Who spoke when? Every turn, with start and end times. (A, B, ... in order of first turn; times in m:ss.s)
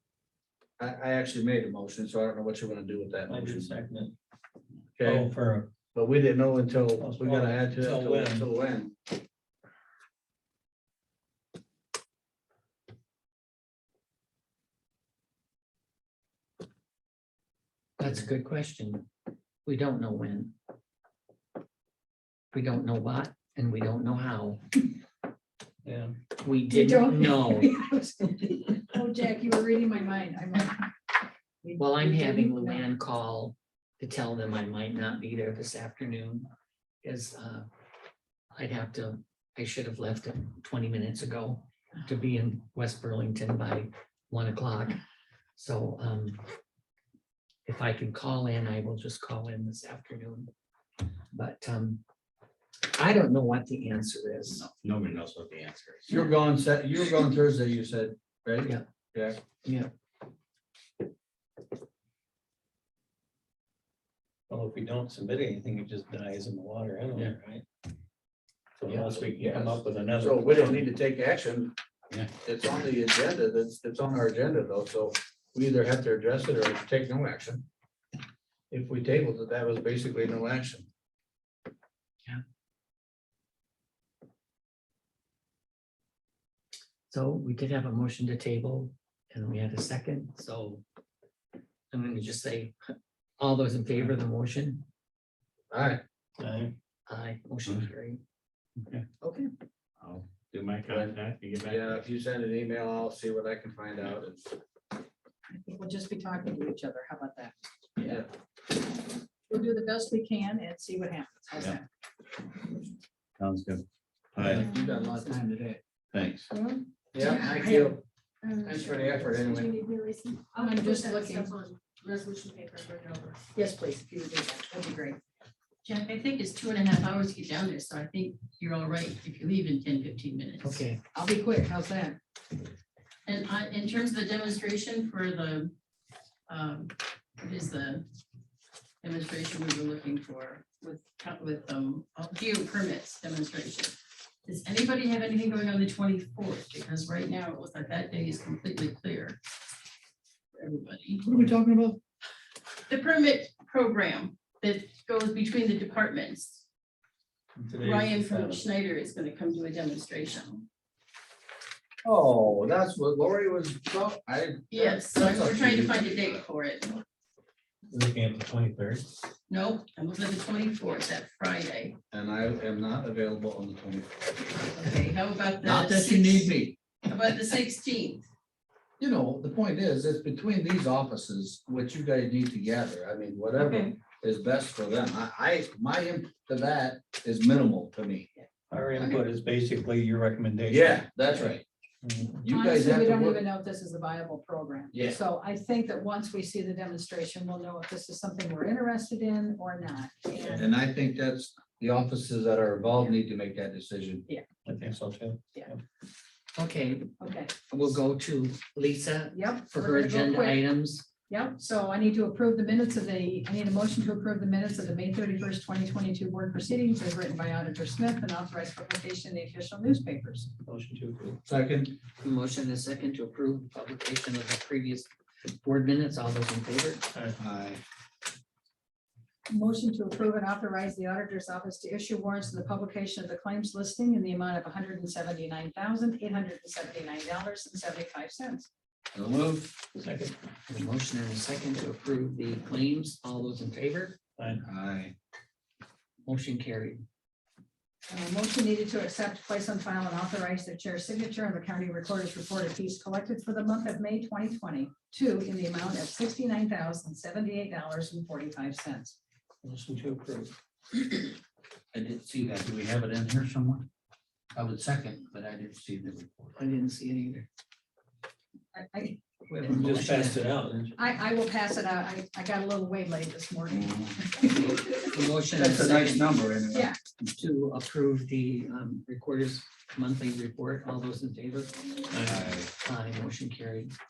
0:00.8-0:03.7 A
0:03.3-0:04.1 B
0:05.0-0:05.3 A
0:05.0-0:05.7 B
0:05.9-0:08.9 A
0:07.0-0:08.4 B
0:18.0-0:19.0 C
0:19.6-0:20.5 C
0:22.5-0:24.8 C
0:25.8-0:26.1 B
0:26.4-0:27.7 C
0:26.7-0:30.9 D
0:31.6-0:32.8 D
0:31.8-0:36.5 C
0:37.0-0:37.7 C
0:38.5-0:45.0 C
0:45.6-0:46.4 C
0:47.6-0:50.5 C
0:51.3-0:52.0 C
0:52.9-0:54.6 C
0:54.6-0:56.2 E
0:56.1-0:59.4 A
0:59.6-0:59.9 C
1:04.5-1:07.6 B
1:08.8-1:10.8 B
1:08.9-1:11.7 A
1:12.3-1:17.6 A
1:18.7-1:20.9 A
1:27.1-1:30.8 C
1:31.9-1:32.8 C
1:33.4-1:34.8 C
1:35.7-1:36.0 A
1:36.4-1:36.7 B
1:37.1-1:38.2 C
1:40.0-1:42.0 E
1:40.8-1:44.5 A
1:45.5-1:47.5 D
1:48.0-1:48.3 A
1:49.5-1:51.8 D
1:53.4-1:53.7 A
1:53.5-1:53.8 E
1:54.4-1:54.6 E
1:54.4-1:56.5 A
1:54.7-1:55.0 F
1:56.5-1:57.8 F
1:57.1-1:58.0 A
1:57.2-1:57.9 D
1:58.4-2:03.5 F
1:58.6-1:59.8 A
2:00.5-2:01.6 D
2:03.5-2:05.2 D
2:05.8-2:10.8 G
2:10.6-2:11.0 C
2:11.1-2:12.2 D
2:13.2-2:15.7 G
2:16.5-2:18.0 G
2:19.0-2:23.9 G
2:24.4-2:29.4 G
2:30.6-2:31.3 G
2:31.3-2:32.0 D
2:32.9-2:36.6 G
2:37.5-2:38.6 B
2:37.8-2:40.6 G
2:42.0-2:46.4 A
2:44.7-2:47.0 G
2:47.9-2:49.1 B
2:49.5-2:52.0 G
2:52.1-2:54.2 A
2:54.6-2:56.5 G
2:55.6-2:56.8 A
2:57.0-2:58.2 G
2:59.0-3:08.3 A
3:08.7-3:11.5 B
3:10.7-3:11.6 A
3:12.0-3:12.4 B
3:12.4-3:13.4 A
3:12.5-3:20.7 D
3:14.9-3:15.2 A
3:20.5-3:24.2 A
3:24.6-3:25.8 B
3:26.6-3:27.1 C
3:27.2-3:27.5 D
3:27.7-3:31.1 C
3:29.3-3:30.6 D
3:31.3-3:40.5 D
3:40.6-3:41.4 B
3:41.5-3:42.0 A
3:42.2-3:47.0 C
3:47.1-3:47.4 B
3:47.4-3:47.8 A
3:49.5-3:58.7 D
3:59.1-3:59.8 A
4:00.0-4:00.3 B
4:00.7-4:04.2 C
4:04.6-4:05.1 A
4:06.2-4:07.0 C
4:08.1-4:19.2 D
4:19.6-4:20.5 B
4:21.9-4:23.9 A
4:24.5-4:26.5 A
4:26.6-4:27.5 C
4:28.7-4:29.2 D
4:29.5-4:30.4 C
4:29.6-4:31.0 B
4:31.0-4:35.1 D
4:33.7-4:34.2 A
4:35.1-4:36.3 C
4:35.6-4:36.9 A
4:37.4-4:43.9 C